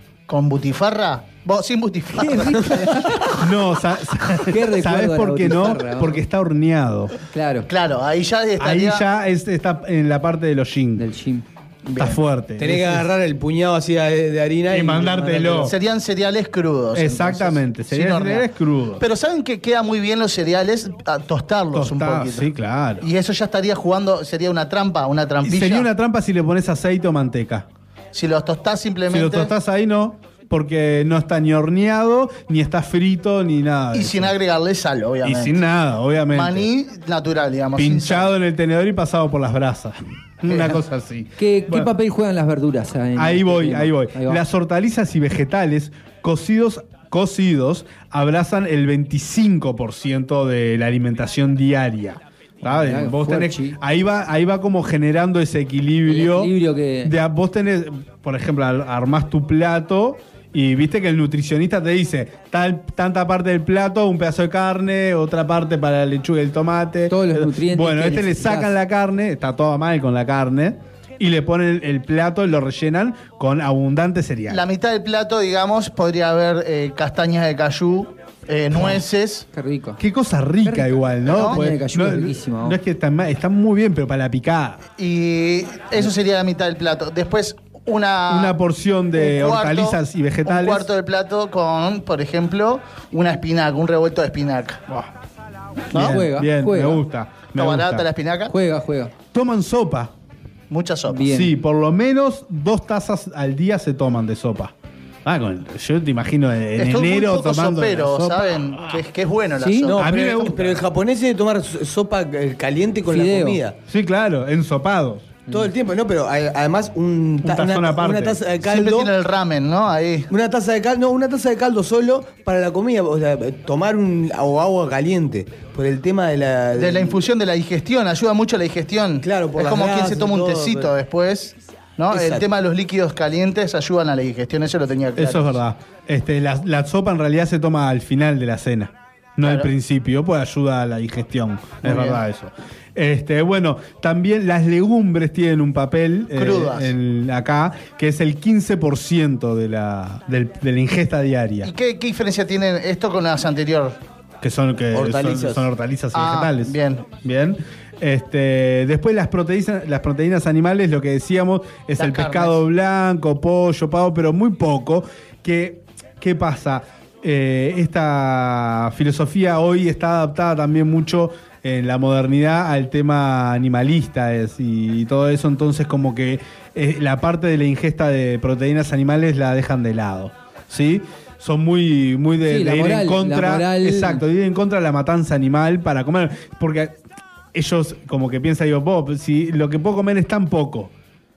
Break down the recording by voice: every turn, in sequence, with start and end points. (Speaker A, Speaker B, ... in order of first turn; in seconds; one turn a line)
Speaker A: 0.3-3.0
Speaker B: 2.2-3.3
Speaker C: 3.4-7.1
Speaker B: 4.5-6.2
Speaker B: 7.3-7.7
Speaker A: 7.7-9.0
Speaker C: 8.6-11.0
Speaker B: 11.0-11.4
Speaker C: 11.9-13.1
Speaker D: 12.6-15.7
Speaker C: 14.7-15.7
Speaker A: 15.6-22.5
Speaker C: 16.9-19.0
Speaker C: 21.7-23.1
Speaker A: 23.0-25.9
Speaker C: 25.4-27.6
Speaker A: 28.1-29.5
Speaker C: 29.1-34.3
Speaker A: 33.9-35.6
Speaker C: 35.2-36.6
Speaker A: 36.3-38.3
Speaker C: 37.8-41.9
Speaker A: 40.5-40.8
Speaker B: 41.4-44.4
Speaker C: 43.2-56.5
Speaker B: 52.6-53.8
Speaker B: 56.0-57.1
Speaker C: 57.0-74.6
Speaker B: 67.1-68.7
Speaker A: 74.5-79.4
Speaker B: 79.5-80.0
Speaker C: 80.0-84.8
Speaker A: 81.2-81.6
Speaker B: 81.3-82.8
Speaker A: 85.0-88.6
Speaker C: 88.3-90.9
Speaker A: 89.2-94.8
Speaker C: 95.9-98.1
Speaker A: 95.9-96.2
Speaker B: 95.9-97.0
Speaker A: 97.5-98.5
Speaker B: 98.5-99.1
Speaker C: 99.3-100.1
Speaker A: 100.7-101.3
Speaker B: 101.1-101.5
Speaker C: 101.3-104.7
Speaker C: 105.2-109.0
Speaker A: 106.8-110.6
Speaker B: 109.6-109.9
Speaker D: 109.9-113.8
Speaker C: 110.0-110.8
Speaker B: 113.1-113.6
Speaker C: 113.9-115.4
Speaker D: 115.5-119.1
Speaker C: 117.4-118.4
Speaker A: 118.6-120.3
Speaker D: 120.3-127.2
Speaker A: 126.8-135.6
Speaker D: 129.2-130.9
Speaker D: 132.1-132.4
Speaker C: 135.2-151.7
Speaker A: 139.4-139.7
Speaker A: 141.8-142.2
Speaker A: 146.3-146.9
Speaker A: 151.6-154.0
Speaker C: 154.4-186.9
Speaker D: 154.9-155.7
Speaker A: 156.1-157.1
Speaker A: 162.0-162.6
Speaker B: 182.4-184.2
Speaker C: 187.5-190.9